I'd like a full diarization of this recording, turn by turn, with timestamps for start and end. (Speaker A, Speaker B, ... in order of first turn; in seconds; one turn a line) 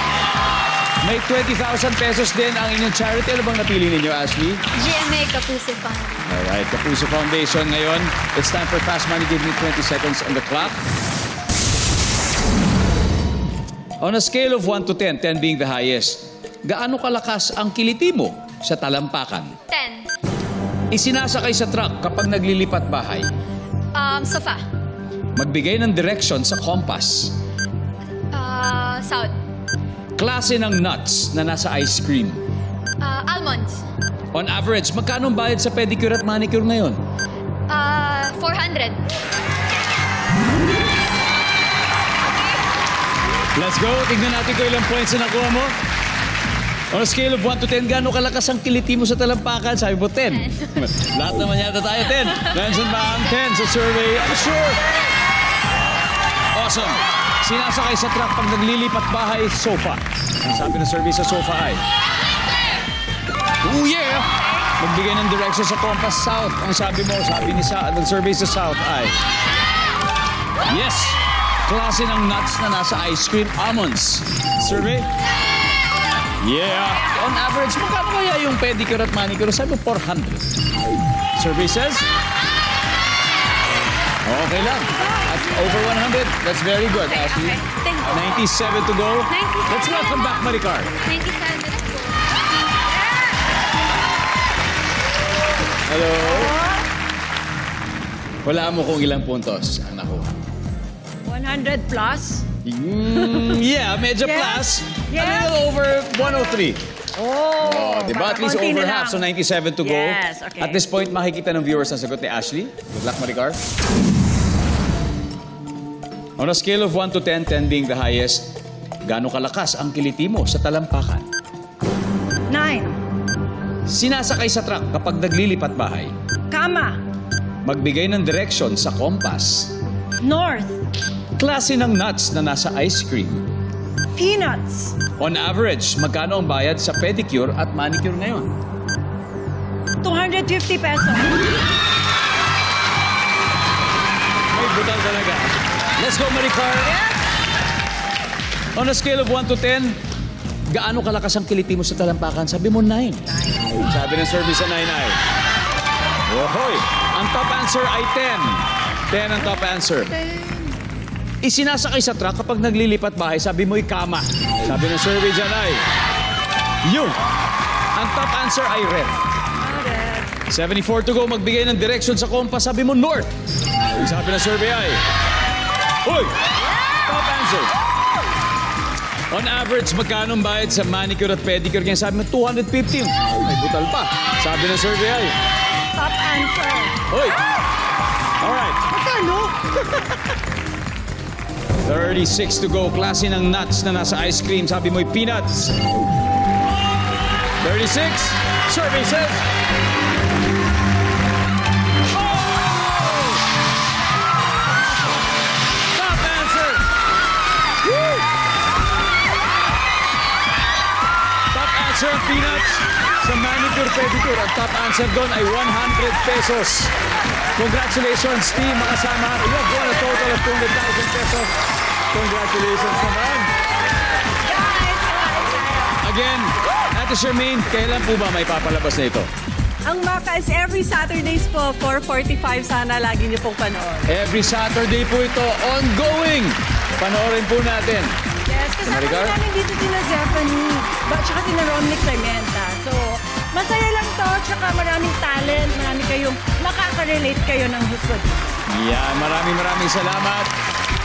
Speaker A: 1.0-4.6
Speaker B: 4.8-6.2
Speaker A: 6.2-10.8
Speaker A: 14.0-19.6
Speaker B: 19.7-20.1
Speaker A: 20.9-23.3
Speaker B: 23.9-24.6
Speaker A: 25.4-27.4
Speaker B: 28.3-29.3
Speaker A: 30.2-32.4
Speaker B: 33.0-33.8
Speaker A: 34.3-37.0
Speaker B: 37.7-39.0
Speaker A: 43.5-45.7
Speaker A: 46.9-54.8
Speaker A: 56.5-61.8
Speaker A: 63.6-69.2
Speaker A: 70.7-75.1
Speaker A: 76.4-80.5
Speaker A: 81.3-82.1
Speaker A: 84.2-90.9
Speaker C: 84.9-85.4
Speaker B: 86.9-88.4
Speaker B: 89.3-92.2
Speaker A: 95.8-96.6
Speaker C: 96.2-96.8
Speaker A: 98.4-100.3
Speaker C: 101.2-102.5
Speaker A: 102.6-106.8
Speaker C: 104.2-105.6
Speaker C: 107.2-109.3
Speaker A: 107.6-113.6
Speaker C: 109.8-110.8
Speaker A: 116.4-118.5
Speaker A: 119.1-121.2
Speaker C: 122.5-123.0
Speaker A: 123.9-126.1
Speaker C: 126.5-127.0
Speaker A: 127.7-129.7
Speaker C: 130.2-130.8
Speaker A: 131.4-133.4
Speaker C: 134.2-135.0
Speaker A: 135.2-138.5
Speaker C: 140.0-141.4
Speaker A: 144.5-147.0
Speaker A: 148.8-150.0
Speaker A: 150.7-155.2
Speaker A: 156.3-160.2
Speaker A: 161.4-165.8
Speaker A: 166.8-167.2
Speaker A: 167.9-169.2
Speaker C: 169.6-170.4
Speaker A: 170.5-173.3
Speaker A: 173.9-175.0
Speaker A: 176.0-176.4
Speaker A: 177.0-177.7
Speaker A: 179.3-185.3
Speaker C: 185.9-187.0
Speaker A: 187.1-187.4
Speaker A: 188.4-188.9
Speaker C: 188.9-190.0
Speaker A: 191.8-195.8
Speaker A: 197.6-199.4
Speaker A: 205.9-206.9
Speaker A: 211.5-216.9
Speaker A: 217.6-221.5
Speaker A: 222.1-223.5
Speaker C: 224.4-226.0
Speaker A: 226.0-229.3
Speaker C: 229.8-234.1
Speaker A: 234.1-238.1
Speaker C: 238.5-248.4
Speaker A: 238.8-239.4
Speaker A: 248.7-250.5